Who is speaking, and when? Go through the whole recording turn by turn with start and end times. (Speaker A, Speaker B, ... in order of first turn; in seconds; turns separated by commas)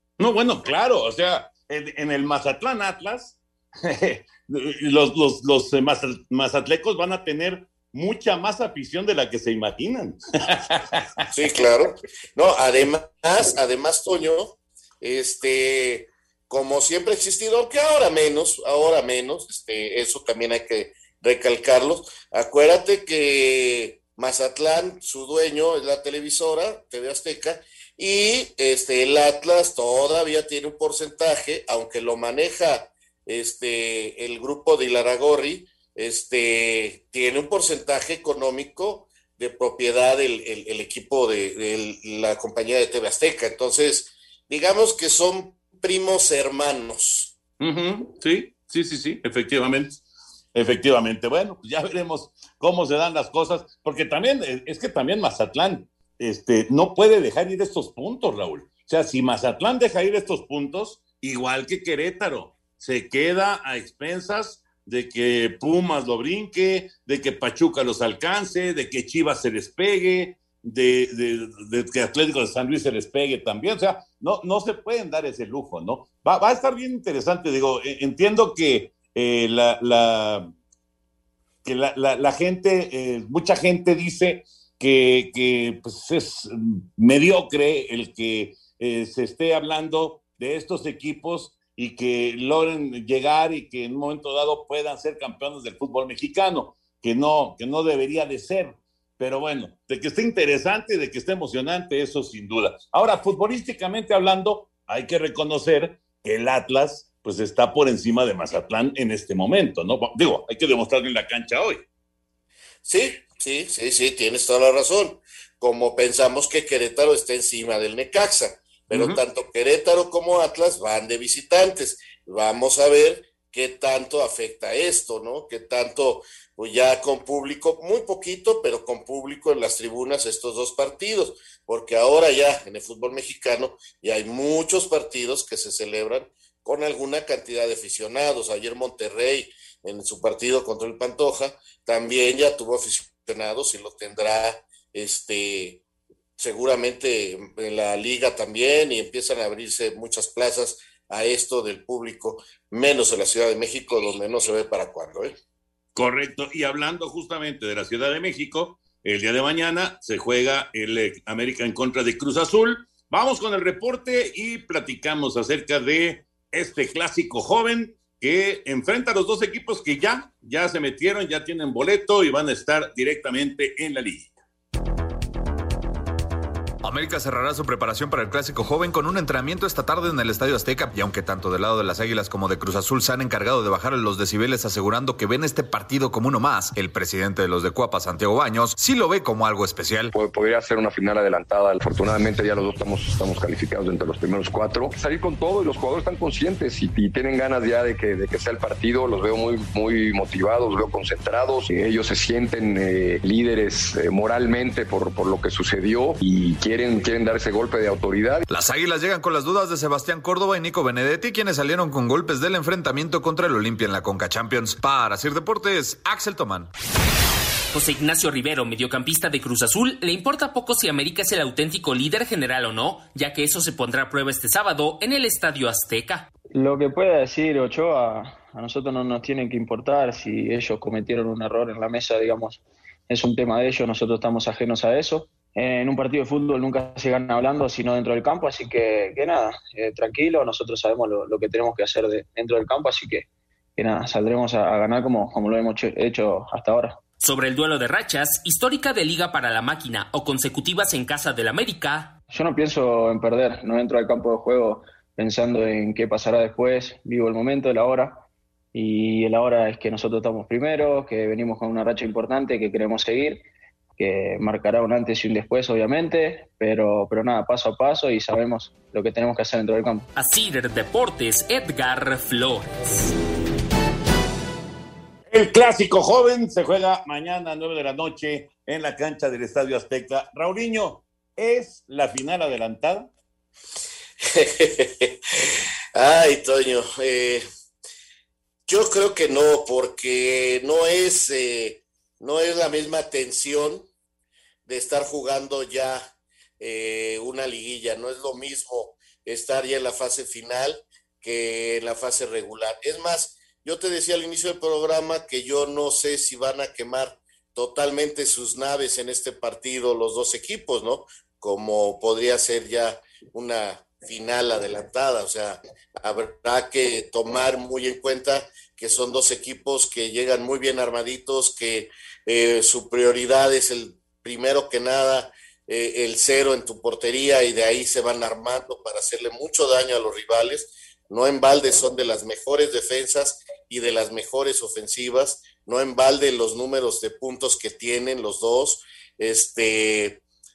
Speaker A: 0.2-11.0, Speaker B: 11.3-47.3, Speaker A: 47.6-50.0, Speaker A: 50.5-80.5, Speaker A: 81.6-111.8, Speaker B: 112.8-145.8, Speaker A: 118.9-119.2, Speaker B: 146.4-155.3, Speaker A: 155.9-174.3, Speaker C: 176.8-190.1, Speaker D: 190.1-208.4, Speaker C: 208.5-216.7, Speaker E: 217.7-226.3, Speaker F: 226.5-247.0, Speaker E: 247.2-252.1, Speaker F: 252.3-258.2, Speaker F: 258.7-263.4, Speaker F: 264.0-270.1, Speaker E: 270.1-273.1, Speaker A: 275.3-283.1, Speaker B: 284.2-285.1, Speaker B: 285.9-287.4, Speaker B: 288.7-293.8, Speaker B: 294.6-296.1, Speaker B: 296.6-340.2